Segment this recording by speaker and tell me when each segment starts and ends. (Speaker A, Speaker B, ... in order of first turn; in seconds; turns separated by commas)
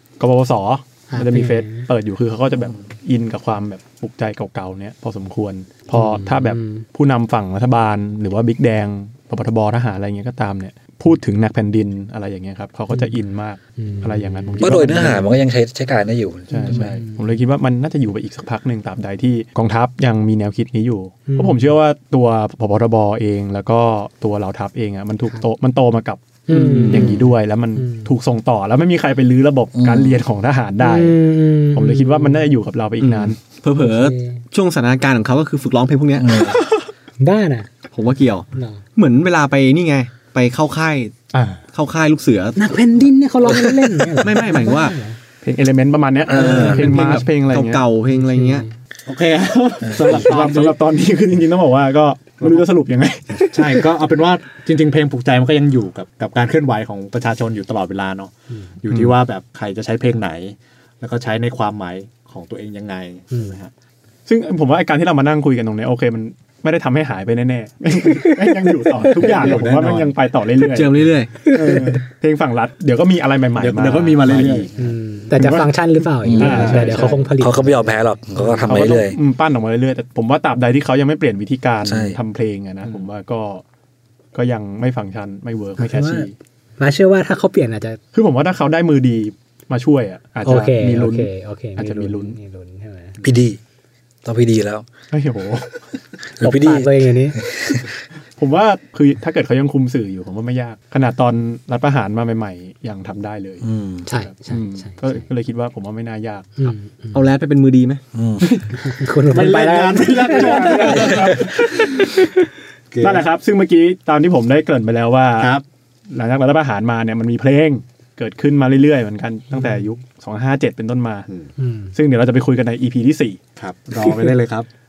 Speaker A: 0.2-15.3, Speaker B: 1.1-1.9, Speaker B: 5.9-6.8, Speaker B: 13.8-15.2, Speaker C: 14.6-17.0, Speaker A: 16.5-31.2, Speaker B: 16.6-17.2, Speaker B: 21.3-21.6, Speaker B: 26.5-27.2, Speaker D: 26.5-27.2, Speaker B: 27.8-28.1, Speaker C: 29.8-30.2, Speaker B: 30.8-32.5, Speaker A: 31.7-33.4, Speaker D: 33.0-36.6, Speaker B: 33.7-34.4, Speaker C: 36.2-36.6, Speaker B: 37.2-37.7, Speaker D: 37.9-41.1, Speaker B: 38.5-38.8, Speaker A: 41.3-41.6, Speaker D: 41.7-42.6, Speaker B: 42.5-45.2, Speaker D: 43.4-45.0, Speaker A: 45.4-47.8, Speaker C: 46.3-46.8, Speaker D: 46.3-48.6, Speaker B: 48.1-48.7, Speaker E: 49.1-50.8, Speaker C: 49.9-50.1, Speaker A: 49.9-53.8, Speaker E: 53.5-63.7, Speaker A: 64.3-74.7, Speaker B: 67.9-69.5, Speaker E: 69.1-70.1, Speaker D: 70.6-71.3, Speaker B: 71.4-72.0, Speaker E: 73.6-74.8, Speaker B: 74.8-78.0, Speaker A: 75.3-75.8, Speaker C: 76.2-79.2, Speaker A: 76.4-77.2, Speaker E: 76.4-77.1, Speaker A: 78.4-83.6, Speaker C: 81.8-82.2, Speaker A: 84.3-86.3, Speaker B: 85.8-86.3, Speaker B: 86.8-88.0, Speaker A: 88.1-92.3, Speaker B: 90.4-93.2, Speaker C: 93.2-93.6, Speaker C: 94.2-94.8, Speaker A: 95.1-95.9, Speaker C: 96.4-97.9, Speaker B: 96.4-97.4, Speaker A: 98.4-103.6, Speaker C: 103.6-104.0, Speaker B: 104.0-105.2, Speaker A: 104.2-106.7, Speaker B: 106.6-107.2, Speaker D: 107.1-108.0, Speaker C: 108.1-108.4, Speaker B: 108.7-111.3, Speaker E: 109.3-111.5, Speaker A: 109.4-112.3, Speaker E: 112.9-113.2, Speaker A: 113.0-115.5, Speaker E: 115.4-115.6, Speaker A: 116.1-121.3, Speaker B: 121.6-121.9, Speaker A: 121.9-123.4, Speaker E: 123.6-124.7